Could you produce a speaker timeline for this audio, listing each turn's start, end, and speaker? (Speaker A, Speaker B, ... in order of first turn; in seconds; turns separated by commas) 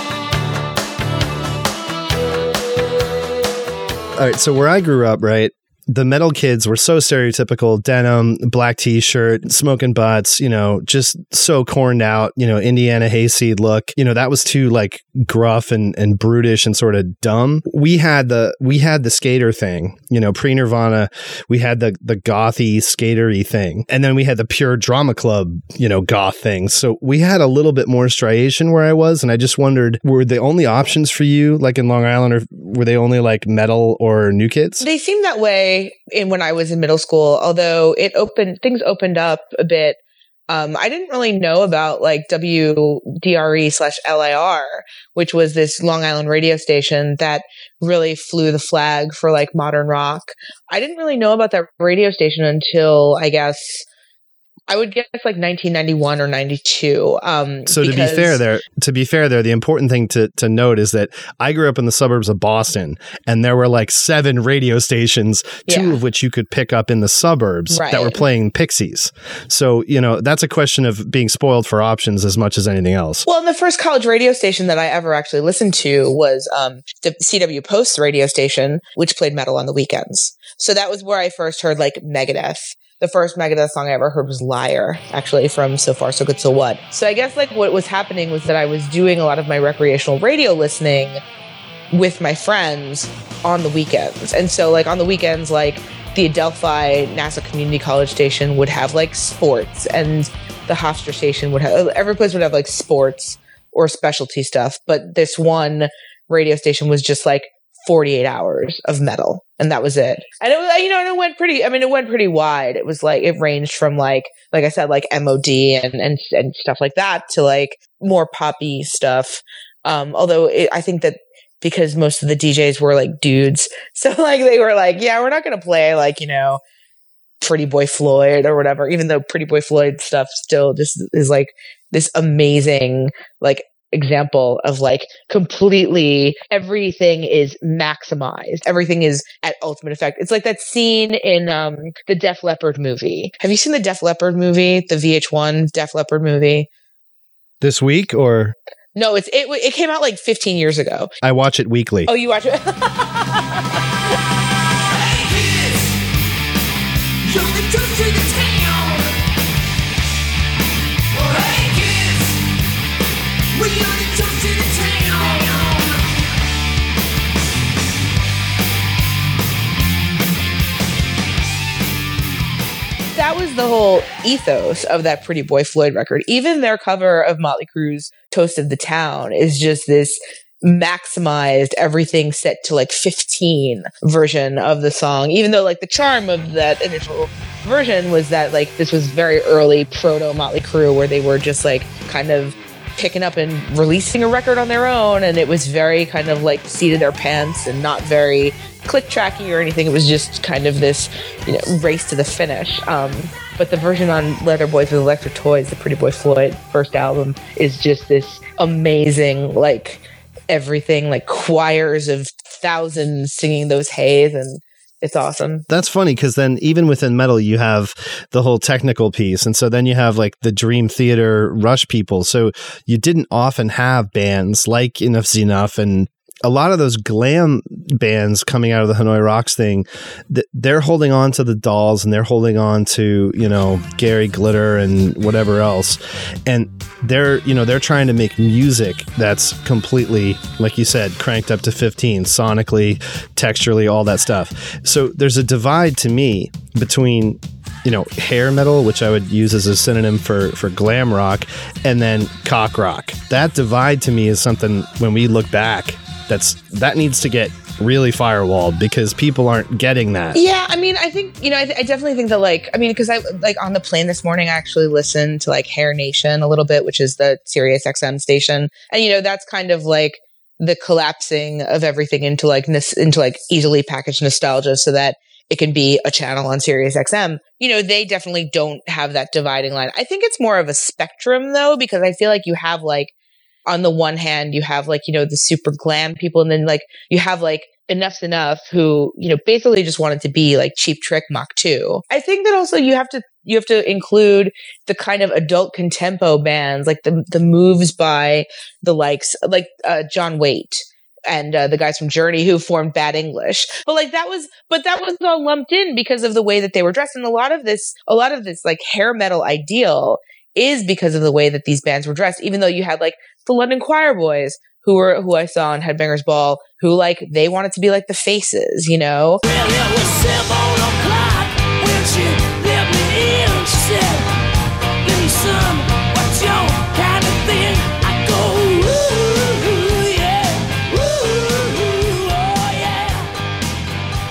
Speaker A: 4.2-34.9, Speaker B: 34.8-53.9, Speaker B: 54.7-58.4, Speaker A: 57.7-73.3, Speaker B: 65.7-66.0, Speaker B: 67.7-68.2, Speaker B: 73.3-91.2, Speaker B: 91.9-126.6, Speaker B: 127.4-146.7, Speaker A: 147.6-148.6, Speaker B: 149.0-151.1, Speaker A: 151.2-152.1, Speaker B: 152.1-153.1, Speaker C: 154.8-156.0, Speaker C: 157.2-159.1, Speaker C: 161.2-162.4, Speaker C: 163.5-166.0, Speaker B: 173.2-215.7, Speaker A: 215.7-260.4, Speaker B: 260.3-283.1, Speaker B: 283.7-319.4, Speaker C: 319.4-324.3, Speaker C: 325.0-333.3